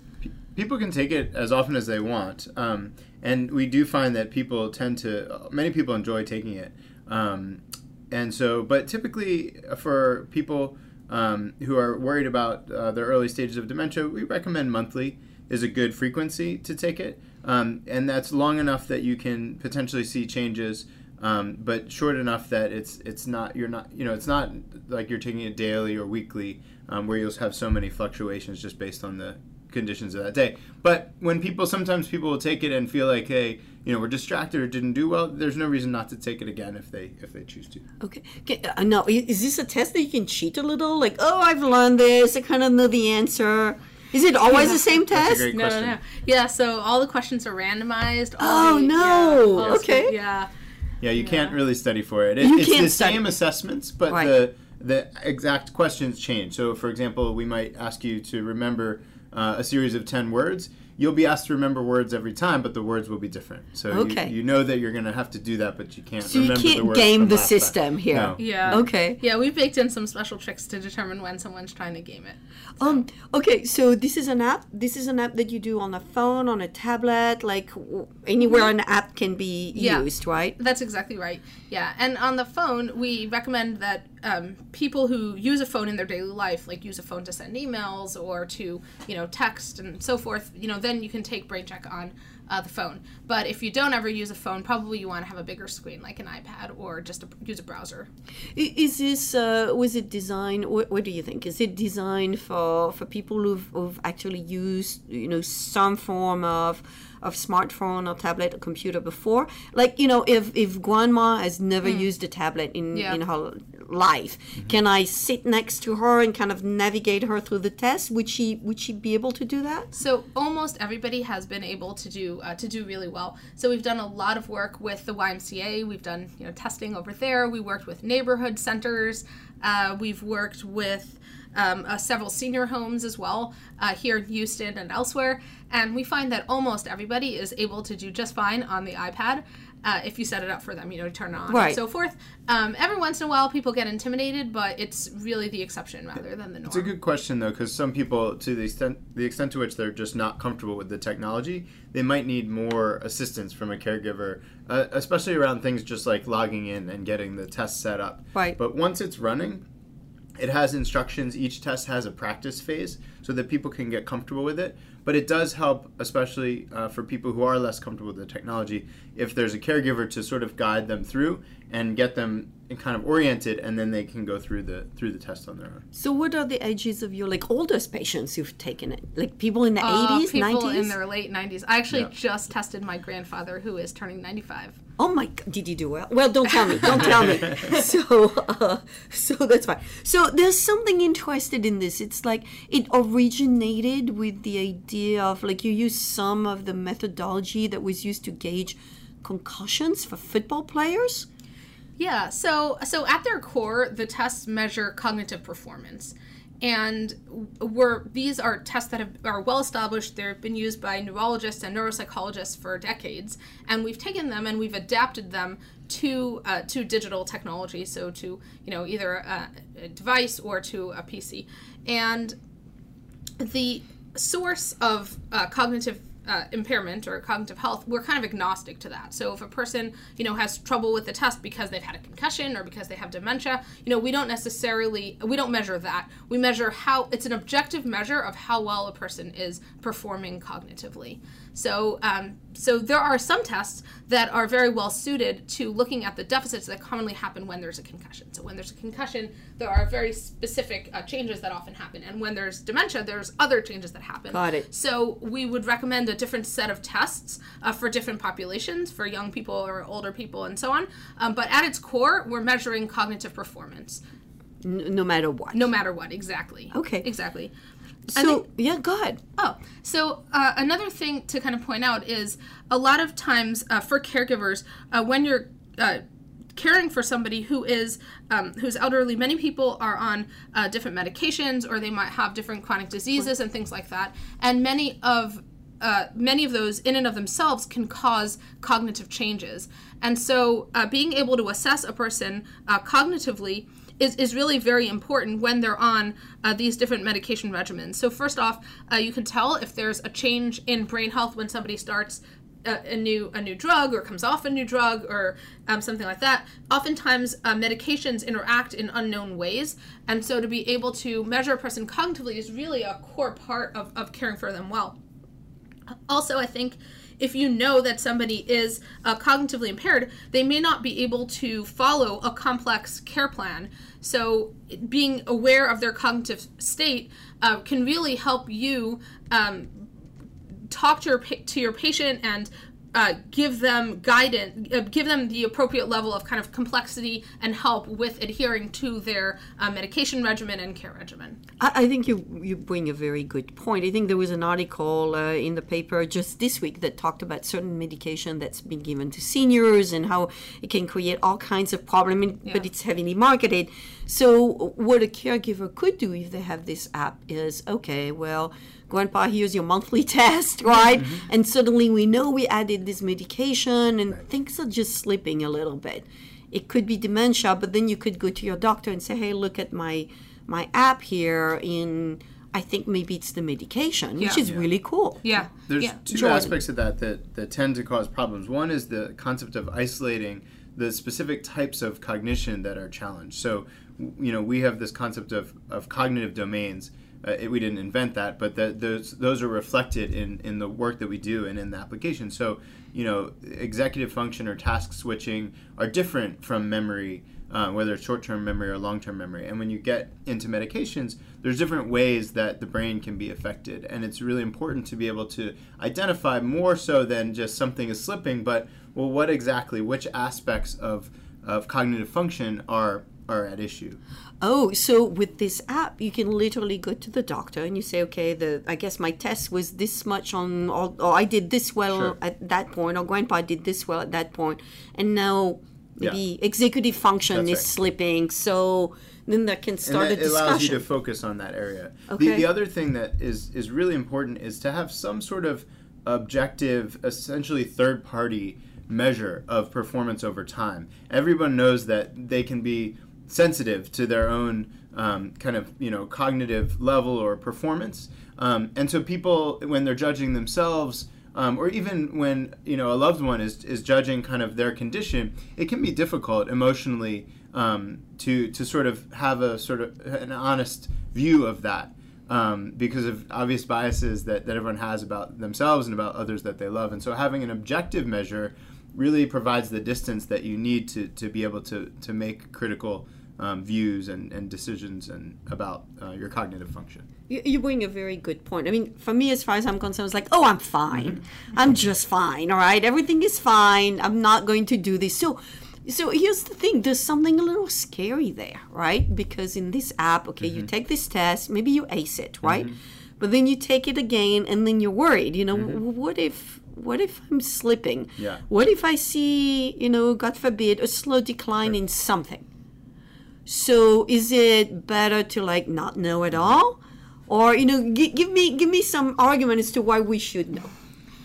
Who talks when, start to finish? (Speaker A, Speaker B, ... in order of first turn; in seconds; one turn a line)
Speaker A: 0.2-37.8
Speaker B: 38.0-45.5
Speaker C: 44.5-44.8
Speaker A: 45.0-46.0
Speaker C: 45.5-50.5
Speaker B: 48.4-50.1
Speaker A: 49.6-49.8
Speaker A: 51.0-68.8
Speaker C: 51.1-51.6
Speaker B: 52.4-53.3
Speaker B: 54.1-54.4
Speaker B: 63.9-64.3
Speaker B: 66.2-69.2
Speaker C: 68.4-73.0
Speaker B: 72.8-80.6
Speaker C: 78.4-78.7
Speaker C: 79.7-98.1
Speaker B: 98.5-119.9
Speaker C: 111.8-112.1
Speaker C: 112.9-113.2
Speaker C: 119.9-146.9
Speaker B: 141.5-141.8
Speaker A: 146.7-159.6
Speaker A: 160.4-175.9
Speaker B: 175.9-181.0
Speaker C: 179.8-184.8
Speaker B: 185.0-201.3
Speaker A: 186.9-187.3
Speaker C: 202.0-222.4
Speaker C: 223.4-264.0
Speaker B: 254.3-254.7
Speaker B: 264.6-265.7
Speaker C: 265.5-267.5
Speaker B: 266.7-267.1
Speaker C: 268.1-268.4
Speaker B: 268.1-269.2
Speaker C: 269.4-276.0
Speaker C: 276.6-315.0
Speaker C: 316.1-329.9
Speaker C: 330.7-341.4
Speaker B: 341.6-375.4
Speaker C: 374.2-374.4
Speaker A: 374.4-374.7
Speaker C: 375.2-376.0
Speaker A: 375.7-414.0
Speaker B: 376.1-376.6
Speaker B: 414.4-430.9
Speaker A: 421.9-422.2
Speaker A: 427.3-427.7
Speaker A: 429.8-477.1
Speaker B: 432.1-432.5
Speaker B: 477.3-502.5
Speaker A: 480.9-481.2
Speaker A: 490.4-490.7
Speaker A: 492.4-492.8
Speaker A: 495.5-495.8
Speaker A: 498.2-498.4
Speaker B: 503.5-510.7